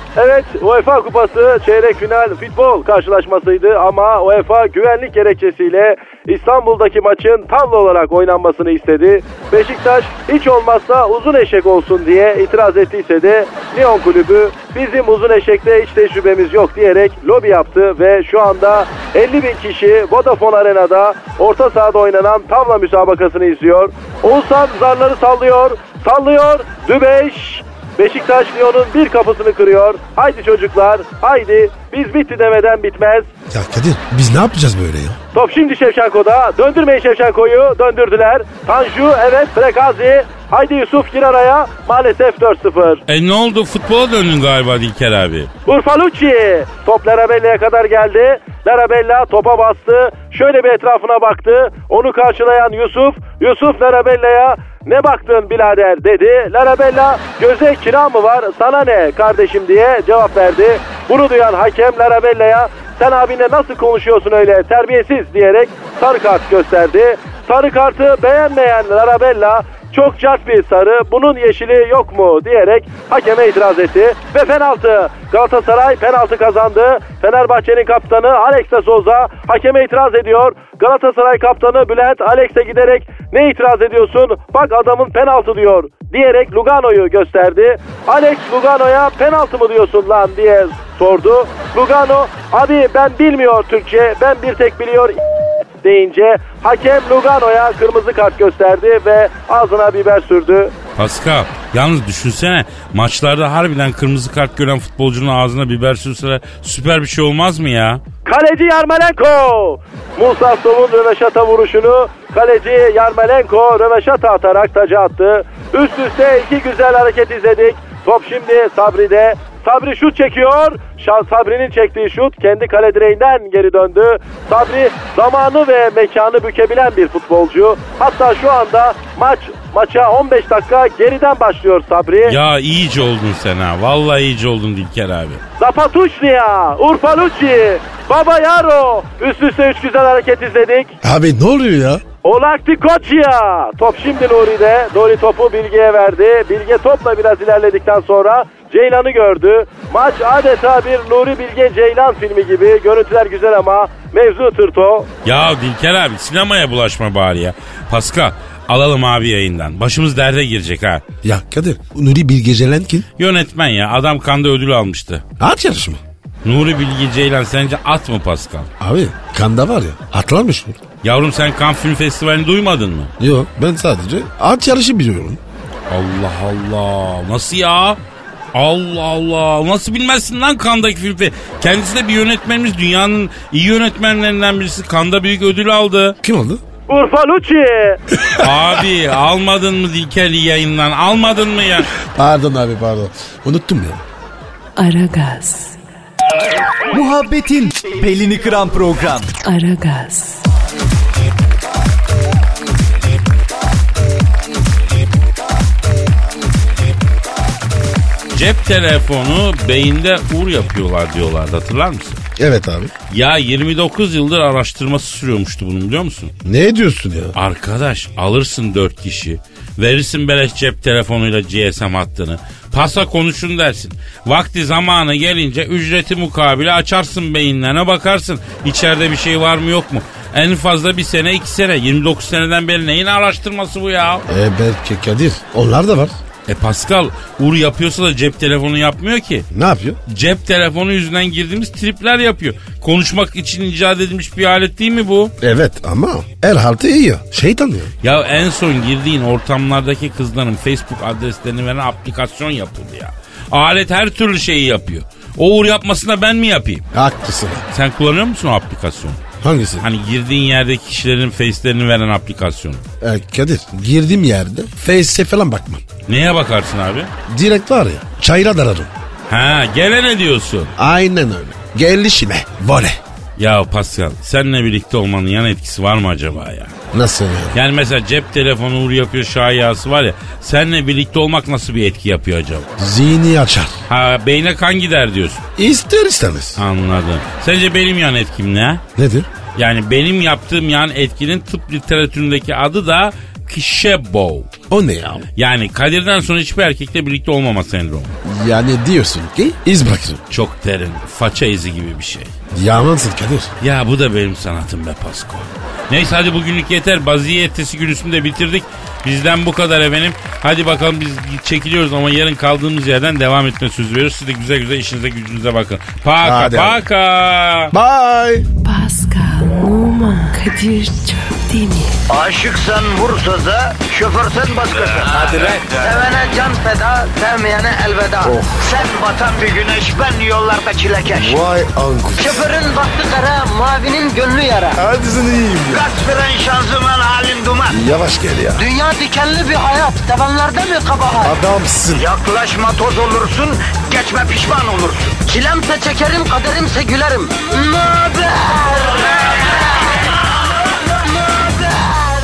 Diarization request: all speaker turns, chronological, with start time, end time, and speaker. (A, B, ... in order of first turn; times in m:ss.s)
0:00.2-0:33.3 A
0:33.5-0:35.2 B
0:35.3-0:43.0 A
0:43.1-0:45.5 C
0:45.7-1:35.2 A
1:35.8-1:40.7 A
1:41.0-1:48.0 C
1:48.2-2:12.4 A
2:12.2-2:15.4 C
2:15.6-2:20.9 A
2:21.0-2:22.0 B
2:22.2-2:35.1 A
2:35.2-2:41.0 C
2:41.2-2:43.1 B
2:43.2-2:45.2 C
2:45.4-2:46.0 B
2:46.4-2:48.7 C
2:48.8-2:50.8 B
2:51.0-2:53.1 C
2:53.2-2:55.4 B
2:55.9-2:58.0 C
2:58.5-3:06.2 C
3:06.2-3:06.6 B
3:06.9-3:08.0 A
3:08.3-3:11.9 C
3:12.0-3:14.0 B
3:14.8-3:15.8 D
3:16.9-3:19.3 E
3:19.4-3:20.4 D
3:28.3-3:32.2 C
3:32.4-3:32.9 B
3:33.1-3:36.3 C
3:36.4-3:37.4 B
3:37.3-3:54.2 C
3:54.3-3:56.1 B
3:56.5-3:59.5 C
3:59.5-4:00.0 B
4:00.1-4:05.3 C
4:05.4-4:07.9 B
4:08.0-4:16.8 C
4:16.9-4:17.6 B
4:17.7-4:19.2 C
4:19.4-4:19.8 B
4:19.8-4:22.8 C
4:23.0-4:25.8 B
4:26.1-4:27.1 C
4:27.3-4:28.9 B
4:29.3-4:30.7 C
4:30.8-4:33.0 B
4:33.4-4:36.7 C
4:36.9-4:37.6 B
4:37.5-4:42.7 C
4:42.8-4:43.8 B
4:43.9-4:45.4 C
4:45.6-4:46.6 B
4:46.6-4:48.8 C
4:49.0-4:49.3 B
4:49.5-4:54.5 C
4:54.7-4:55.3 B
4:55.4-4:58.1 C
4:58.2-5:00.2 B
5:00.3-5:02.3 C
5:02.5-5:03.5 B
5:03.6-5:17.7 C
5:16.2-5:16.8 B
5:17.7-5:18.5 B
5:18.6-5:22.0 D
5:22.1-5:31.4 F
5:28.2-5:28.6 B
5:31.1-5:32.4 B
5:32.2-5:34.8 F
5:34.7-5:35.8 B
5:35.7-5:37.8 F
5:37.7-5:38.7 B
5:38.6-5:41.4 F
5:41.2-5:42.0 B
5:41.9-5:49.5 F
5:51.1-5:52.0 F